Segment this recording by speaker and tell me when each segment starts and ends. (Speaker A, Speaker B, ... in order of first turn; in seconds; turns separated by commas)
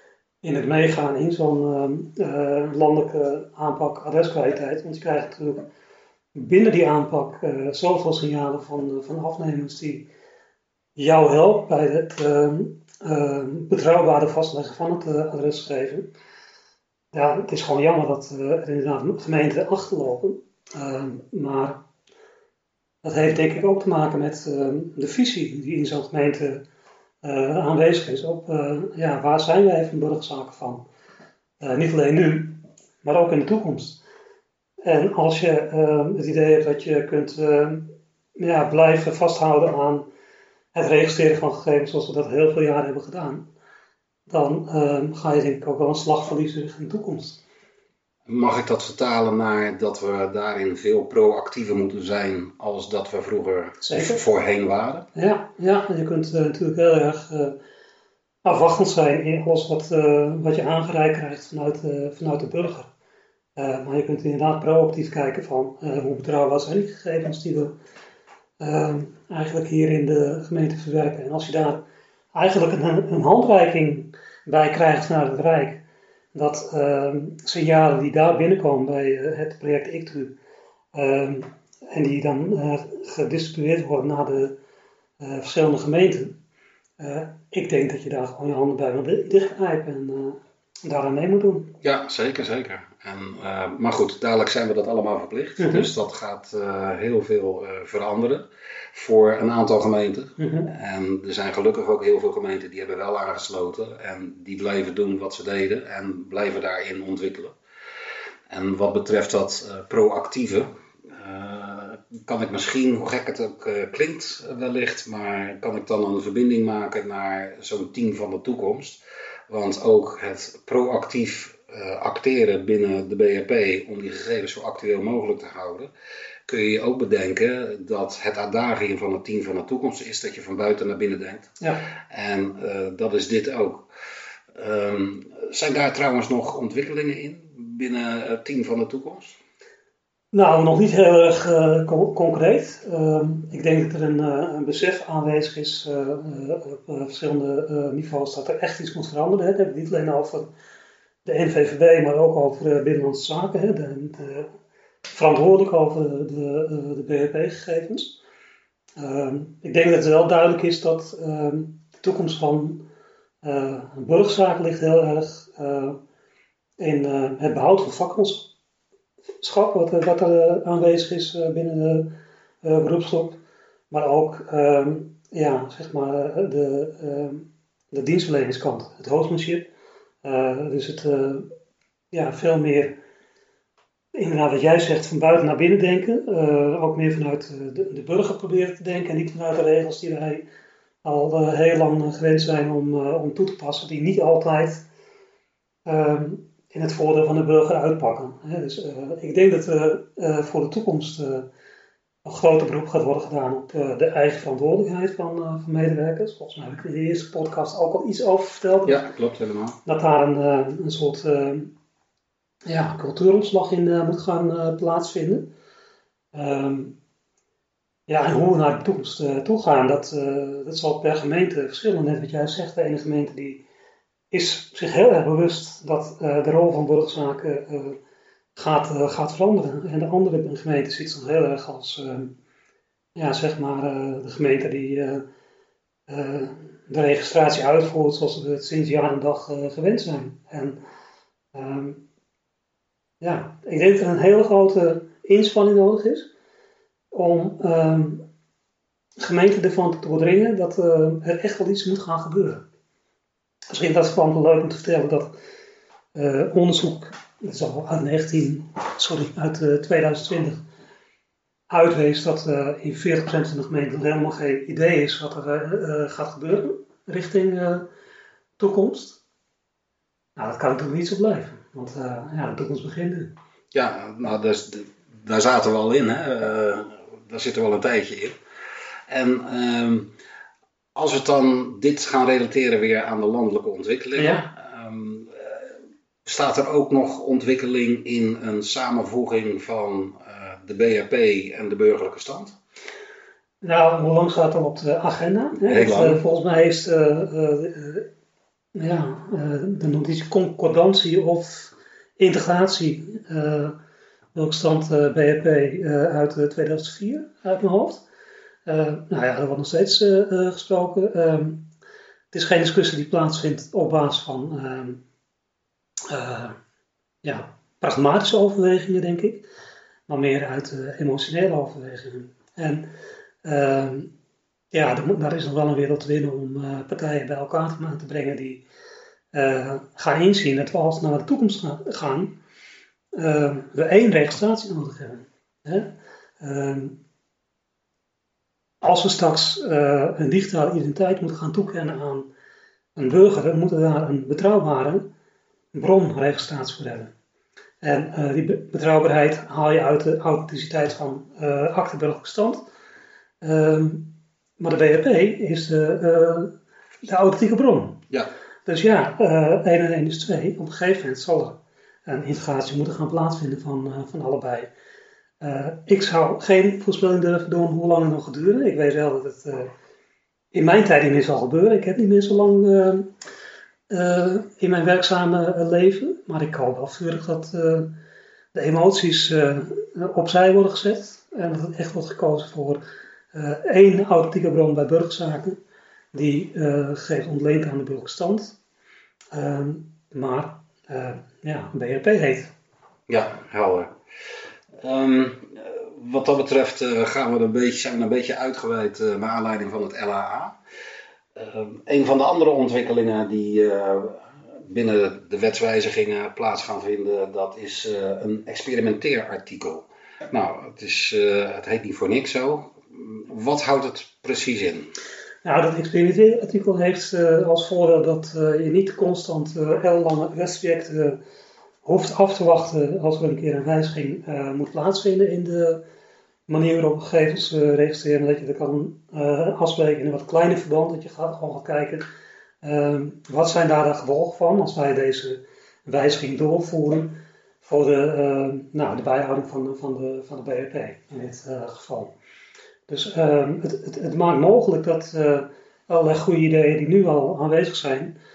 Speaker A: 0.4-5.7, Speaker A: 6.3-10.1, Speaker A: 11.0-16.1, Speaker A: 17.1-21.8, Speaker A: 23.0-26.6, Speaker A: 27.2-30.9, Speaker A: 31.6-34.0, Speaker A: 34.8-40.1, Speaker A: 40.7-43.5, Speaker A: 44.3-47.4, Speaker B: 48.3-55.1, Speaker A: 53.8-54.2, Speaker A: 55.1-57.6, Speaker A: 58.5-62.9, Speaker A: 63.6-67.8, Speaker A: 68.6-71.8, Speaker A: 72.3-75.8, Speaker A: 76.3-80.3, Speaker A: 80.9-84.6, Speaker A: 85.2-86.4, Speaker A: 87.0-91.8, Speaker B: 91.8-107.5, Speaker A: 95.6-95.9, Speaker A: 100.4-100.7, Speaker B: 108.5-125.9, Speaker B: 126.5-131.5, Speaker B: 132.1-133.9, Speaker B: 134.6-139.4, Speaker A: 140.3-150.5, Speaker A: 151.2-154.5, Speaker A: 155.1-158.2, Speaker A: 159.0-162.8, Speaker A: 163.4-166.0, Speaker A: 166.8-168.5, Speaker A: 169.4-173.4, Speaker A: 173.9-179.7, Speaker A: 180.2-181.5, Speaker A: 182.1-183.0, Speaker A: 184.2-190.4, Speaker A: 191.0-194.8, Speaker A: 195.9-201.5, Speaker A: 202.2-209.1, Speaker B: 208.9-209.8, Speaker A: 209.9-211.7, Speaker A: 212.7-215.5, Speaker A: 216.3-217.0, Speaker A: 218.1-223.6, Speaker A: 224.3-228.0, Speaker A: 228.6-232.3, Speaker A: 233.2-235.2, Speaker A: 236.1-240.8, Speaker A: 241.5-242.1, Speaker A: 243.2-246.3, Speaker A: 247.1-248.2, Speaker A: 249.2-252.7, Speaker A: 253.7-255.3, Speaker A: 256.1-260.6, Speaker A: 261.7-267.9, Speaker A: 268.6-269.2, Speaker A: 270.4-273.4, Speaker B: 273.7-278.4, Speaker B: 279.1-280.1, Speaker B: 280.9-285.7, Speaker A: 284.2-284.4, Speaker B: 286.2-292.6, Speaker A: 293.6-298.1, Speaker B: 295.6-296.2, Speaker A: 298.8-303.8, Speaker A: 304.3-308.0, Speaker A: 308.7-311.7, Speaker A: 312.3-315.0, Speaker A: 316.1-316.6, Speaker A: 317.2-319.5, Speaker A: 320.1-322.9, Speaker A: 323.4-324.1, Speaker A: 324.7-328.6, Speaker A: 329.3-332.4, Speaker A: 333.1-337.0, Speaker A: 338.8-342.3, Speaker A: 343.0-345.1, Speaker A: 345.7-347.1, Speaker A: 347.8-352.6, Speaker A: 353.4-358.0, Speaker A: 358.7-364.7, Speaker A: 365.4-369.7, Speaker A: 370.5-373.1, Speaker A: 373.9-377.9, Speaker A: 378.5-382.8, Speaker A: 383.3-385.6, Speaker A: 386.1-388.6, Speaker A: 389.3-392.5, Speaker B: 393.1-393.9, Speaker B: 394.8-400.6, Speaker B: 401.4-414.9, Speaker A: 415.4-421.2, Speaker A: 421.9-425.8, Speaker A: 426.5-432.1, Speaker A: 432.6-442.1, Speaker A: 442.9-448.1